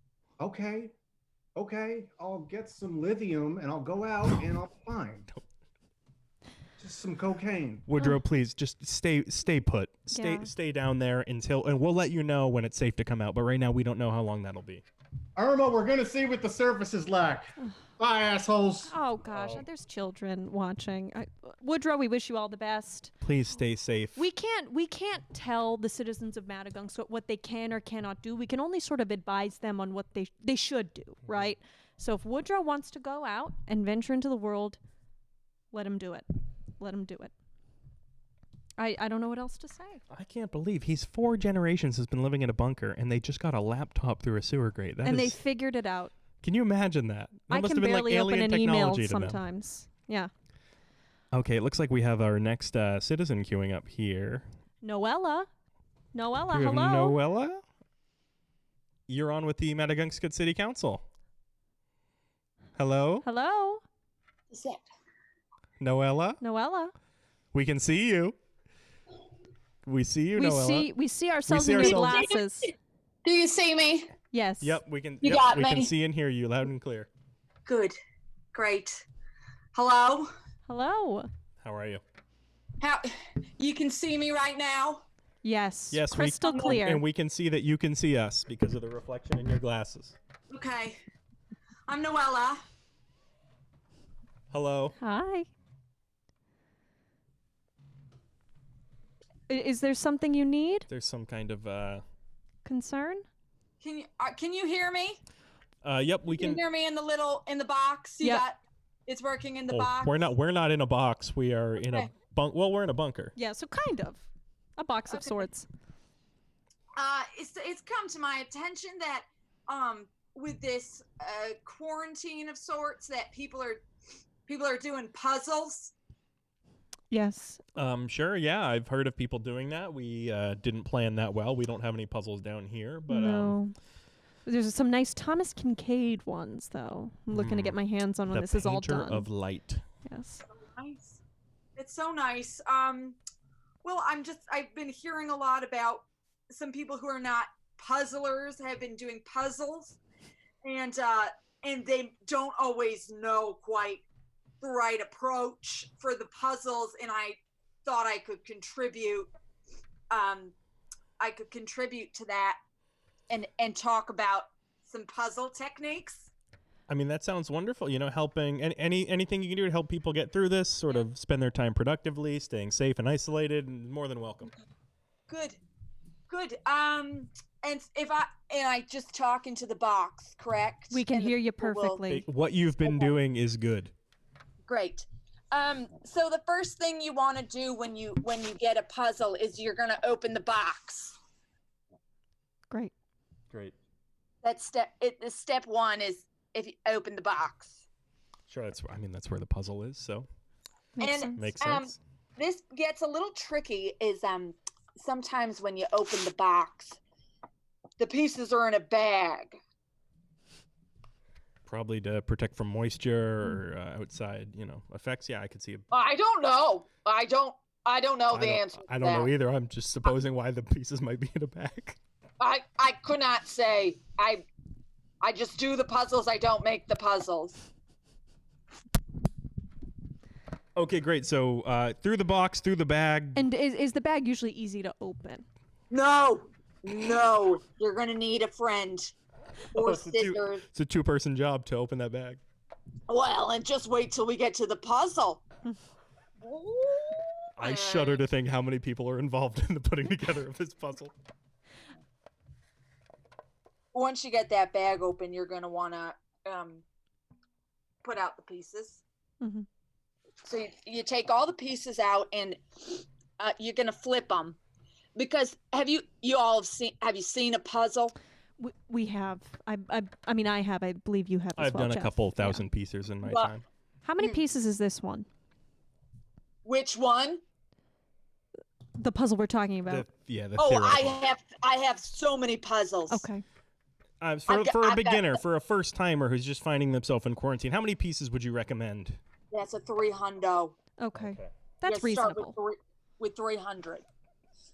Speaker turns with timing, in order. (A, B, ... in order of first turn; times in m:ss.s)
0:00.4-0:00.9 A
0:01.6-0:05.3 A
0:06.8-0:07.9 A
0:07.9-0:14.8 B
0:10.1-0:10.5 C
0:15.4-0:18.9 A
0:18.9-0:23.1 C
0:19.3-0:19.6 B
0:23.2-0:24.2 B
0:24.2-0:34.8 C
0:35.7-0:36.3 C
0:36.8-0:37.3 C
0:38.8-0:40.0 C
0:40.1-0:45.4 B
0:45.0-0:46.1 C
0:46.4-0:49.4 B
0:47.5-0:50.3 C
0:51.3-0:54.5 B
0:54.8-0:55.5 C
0:56.1-0:57.2 C
0:56.5-0:57.6 B
0:59.1-1:01.0 B
1:02.8-1:03.2 B
1:03.2-1:03.8 C
1:04.5-1:04.8 D
1:05.8-1:06.4 B
1:06.4-1:06.9 C
1:07.5-1:08.4 B
1:09.8-1:10.9 B
1:10.4-1:12.7 C
1:11.5-1:12.2 B
1:11.8-1:12.4 D
1:13.2-1:14.1 D
1:14.3-1:14.8 C
1:14.6-1:17.1 B
1:15.2-1:15.9 D
1:17.7-1:18.0 D
1:18.5-1:19.0 D
1:19.8-1:20.3 D
1:20.7-1:21.3 C
1:21.6-1:22.0 B
1:22.8-1:25.0 D
1:25.4-1:27.0 C
1:25.9-1:30.2 B
1:26.4-1:26.8 D
1:30.5-1:31.0 D
1:31.9-1:32.6 D
1:34.5-1:35.0 B
1:35.0-1:35.5 C
1:39.5-1:40.9 C
1:40.9-1:42.0 B
1:42.6-1:43.3 C
1:43.8-1:45.2 D
1:45.8-1:46.6 B
1:46.3-1:50.3 D
1:49.7-1:53.4 B
1:51.8-1:52.1 D
1:53.4-1:54.3 C
1:54.8-1:55.7 C
1:55.1-1:55.5 D
1:57.0-2:03.8 D
2:04.5-2:05.9 D
2:07.1-2:07.6 C
2:07.8-2:13.6 B
2:13.1-2:13.8 C
2:14.5-2:19.3 C
2:17.3-2:19.8 B
2:20.1-2:20.4 C
2:20.4-2:21.2 D
2:21.8-2:23.2 D
2:23.8-2:30.0 D
2:30.6-2:34.0 D
2:34.6-2:39.3 D
2:40.1-2:40.5 D
2:41.2-2:42.6 D
2:43.3-2:46.3 D
2:46.9-2:54.5 B
2:55.3-2:55.6 D
2:56.3-3:02.0 D
3:00.9-3:02.3 C
3:02.1-3:03.9 B
3:02.8-3:03.2 D
3:04.7-3:11.2 D
3:14.4-3:17.8 D
3:18.5-3:20.3 B
3:21.0-3:21.5 C
3:21.0-3:27.0 D
3:21.4-3:22.0 B
3:28.0-3:29.6 D
3:31.7-3:35.9 B
3:35.9-3:39.3 D
3:38.3-3:42.0 B
3:42.4-3:44.4 D
3:45.2-3:47.6 D
3:50.8-3:53.4 B
3:53.4-3:55.5 C
3:55.9-3:59.1 D
3:59.7-4:00.6 D
3:59.8-4:02.4 B
4:03.1-4:05.4 D
4:06.4-4:08.2 D
4:07.6-4:11.1 B
4:13.9-4:16.8 D
4:18.0-4:19.0 D
4:19.4-4:19.7 C
4:20.4-4:24.6 D
4:25.2-4:28.2 D
4:28.6-4:32.7 C
4:31.6-4:33.6 B
4:33.2-4:33.5 D
4:34.0-4:35.3 C
4:36.6-4:37.4 D
4:39.0-4:40.1 C
4:39.9-4:41.2 B
4:40.6-4:43.3 D
4:43.1-4:43.4 C
4:44.2-4:49.2 B
4:44.5-4:45.4 D
4:49.5-4:50.8 D
4:51.0-4:52.5 C
4:51.2-4:51.5 B
4:51.8-4:54.0 D